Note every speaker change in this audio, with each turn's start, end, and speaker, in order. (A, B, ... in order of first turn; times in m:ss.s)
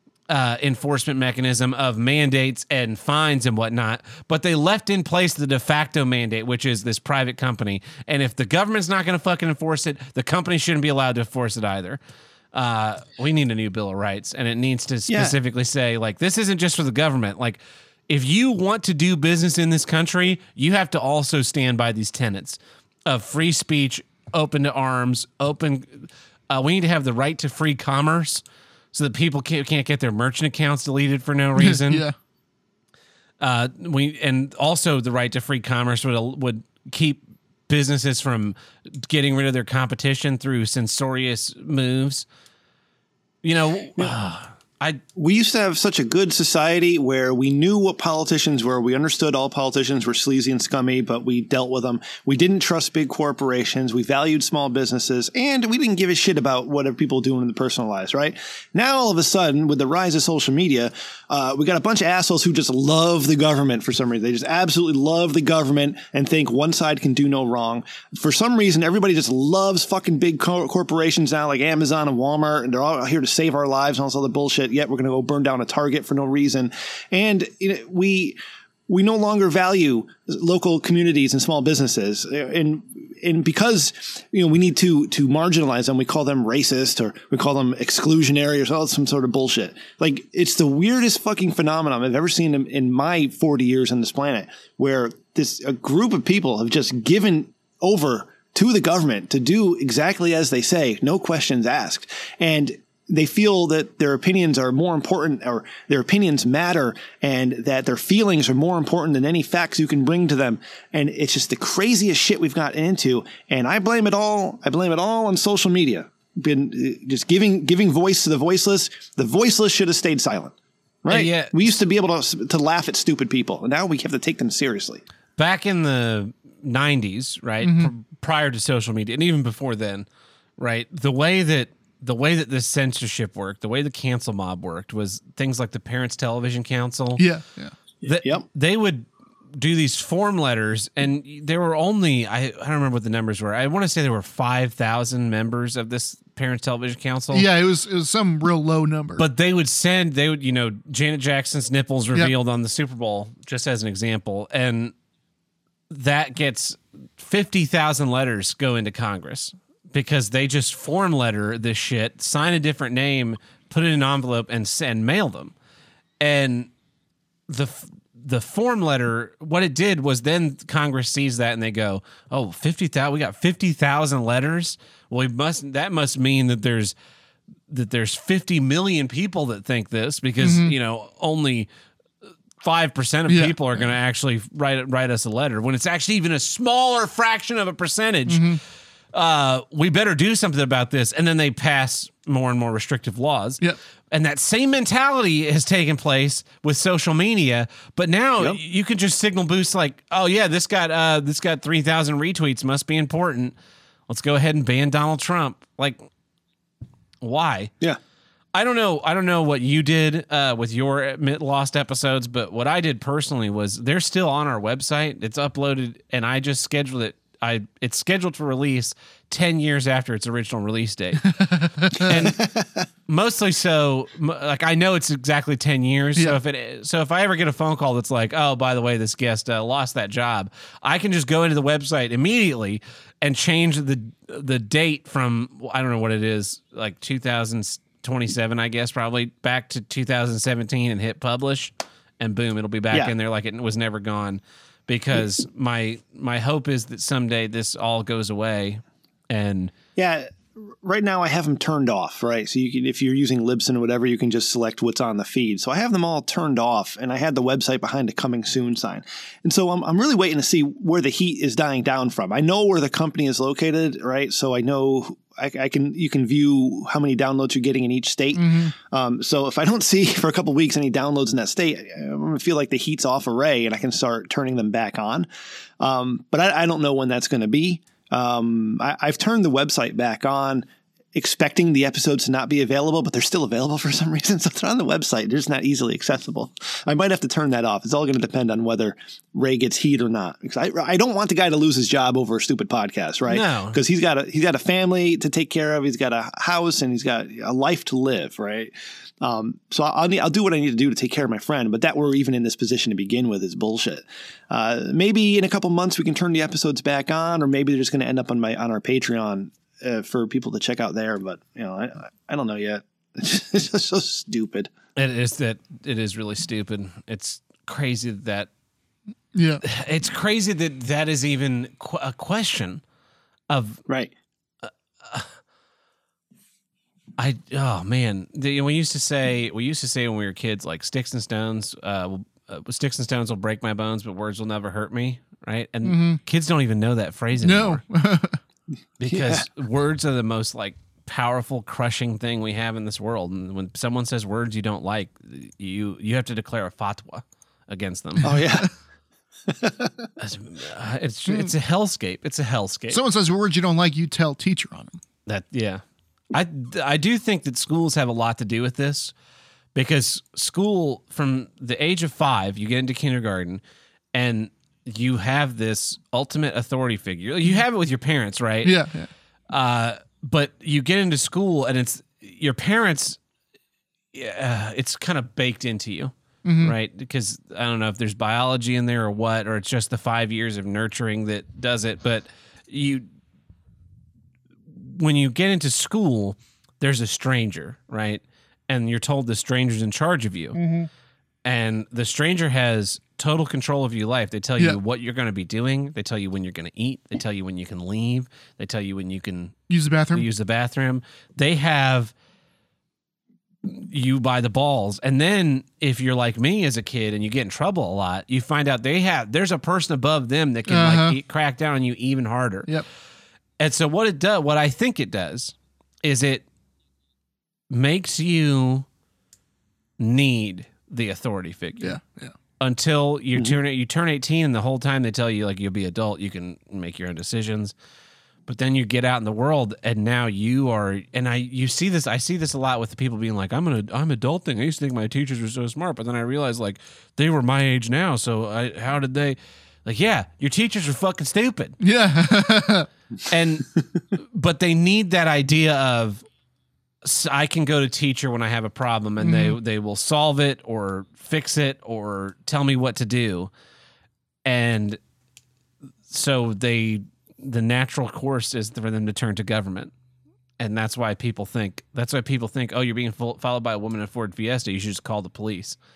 0:00.3-0:12.0 A
0:12.5-0:32.0 A
0:15.1-0:15.4 B
0:31.6-0:32.2 C
0:33.4-0:42.3 A
0:43.4-0:45.0 A
0:45.2-2:05.0 B
2:01.1-2:01.7 A
2:05.4-2:10.1 A
2:07.6-2:07.9 C
2:10.6-2:17.2 A
2:17.2-2:17.8 C
2:18.0-2:18.4 B
2:18.0-2:27.5 A
2:27.3-2:29.2 C
2:29.2-2:34.9 A
2:35.9-2:45.5 A
2:46.2-2:46.7 A
2:47.5-2:57.0 A
2:57.7-3:01.7 A
3:00.4-3:00.7 C
3:02.6-3:08.5 A
3:03.3-3:03.6 C
3:08.3-3:08.6 C
3:09.1-3:23.6 A
3:24.1-3:26.0 A
3:27.2-3:27.7 A
3:28.5-3:41.3 A
3:41.3-3:42.1 C
3:42.0-3:42.5 A
3:42.1-3:42.8 B
3:43.1-4:09.7 A
4:10.0-4:35.3 B
4:28.3-4:28.7 C
4:35.8-5:14.7 B
4:53.3-4:53.8 A
5:15.0-5:18.5 A
5:19.3-5:19.6 C
5:19.6-5:22.8 A
5:23.5-5:23.8 A
5:24.6-5:25.3 A
5:27.2-5:37.8 A
5:35.8-5:36.2 C
5:37.4-5:38.4 C
5:39.0-5:48.3 A
5:39.0-5:39.5 B
5:48.2-5:48.7 C
5:48.2-5:48.7 B
5:49.5-5:50.1 B
5:50.2-5:53.0 A
5:52.9-5:55.0 C
5:55.3-5:55.8 A
5:56.3-5:59.1 A
5:59.8-6:03.6 A
6:04.1-6:08.8 A
6:08.6-6:09.1 C
6:09.5-6:13.2 A
6:14.1-6:23.1 A
6:16.4-6:16.7 C
6:24.7-6:30.6 A
6:30.6-6:30.9 C
6:31.4-6:39.6 A
6:39.7-6:40.3 C
6:40.1-6:42.1 A
6:43.6-6:52.7 A
6:50.7-6:51.2 C
6:53.6-6:56.4 A
6:57.7-6:58.9 A
7:00.0-7:02.0 A
7:01.8-7:02.3 C
7:02.6-7:07.8 A
7:08.5-7:21.8 A
7:21.8-7:22.9 C
7:23.3-7:26.2 A
7:27.0-7:33.5 A
7:29.2-7:29.6 C
7:34.5-7:35.0 A
7:36.1-7:39.9 A
7:40.6-7:45.8 A